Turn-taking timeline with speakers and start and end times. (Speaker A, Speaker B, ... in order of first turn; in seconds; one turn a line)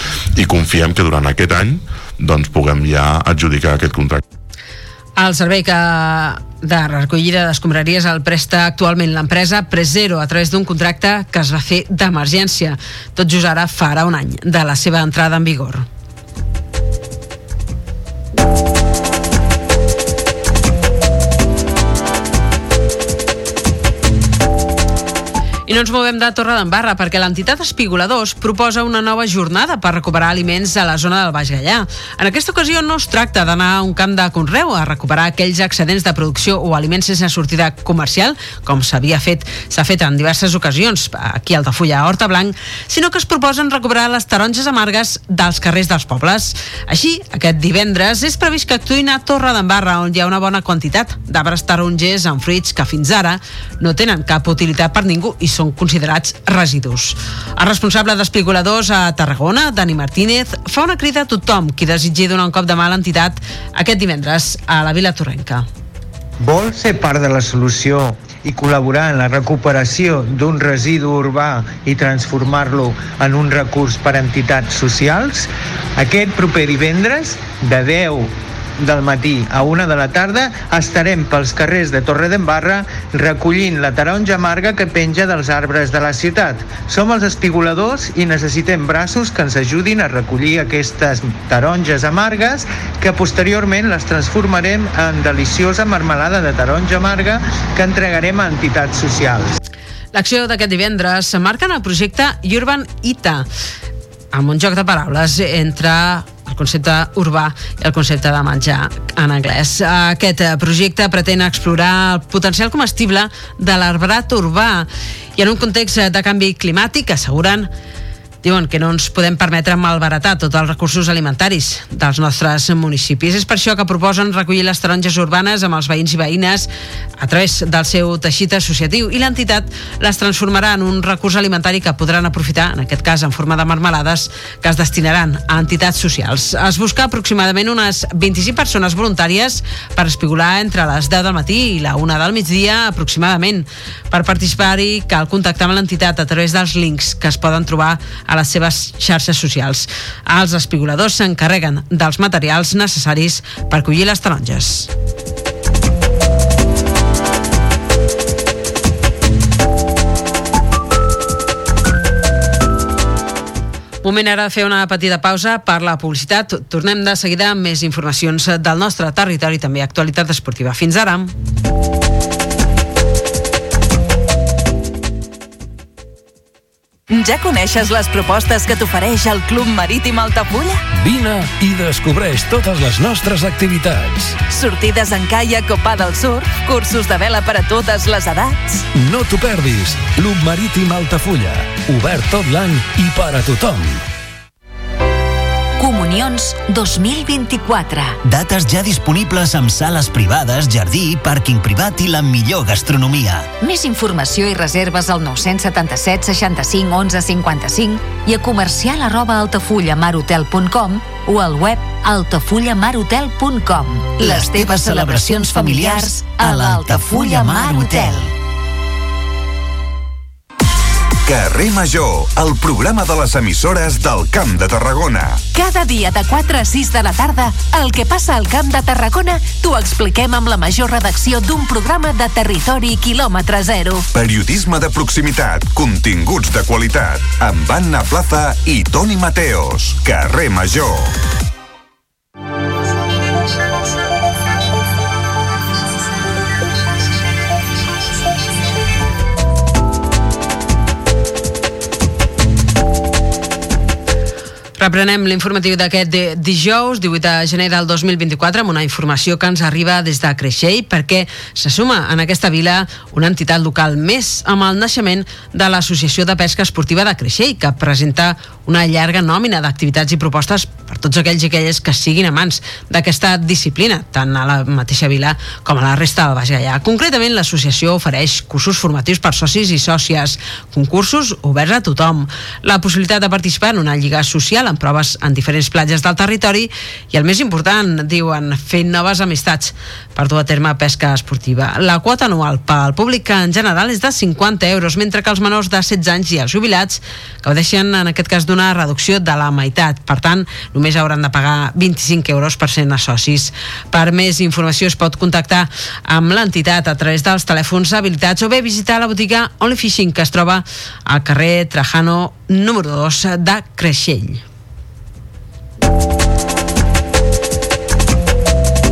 Speaker A: 0.3-4.2
Speaker B: 5.2-15.8
Speaker B: 25.7-65.7
Speaker C: 66.4-99.6
Speaker B: 100.1-103.5
Speaker B: 104.3-117.7
Speaker B: 118.4-126.7
Speaker B: 127.2-154.9
Speaker B: 164.0-171.3
Speaker D: 177.1-180.9
Speaker E: 181.0-184.4
Speaker D: 184.5-188.9
Speaker E: 189.0-194.0
Speaker F: 195.8-198.2
Speaker G: 198.2-203.5
Speaker F: 203.6-218.3
Speaker G: 214.2-218.2
Speaker H: 221.2-225.4
Speaker D: 225.6-234.1
Speaker H: 234.1-241.1
Speaker B: 254.8-314.4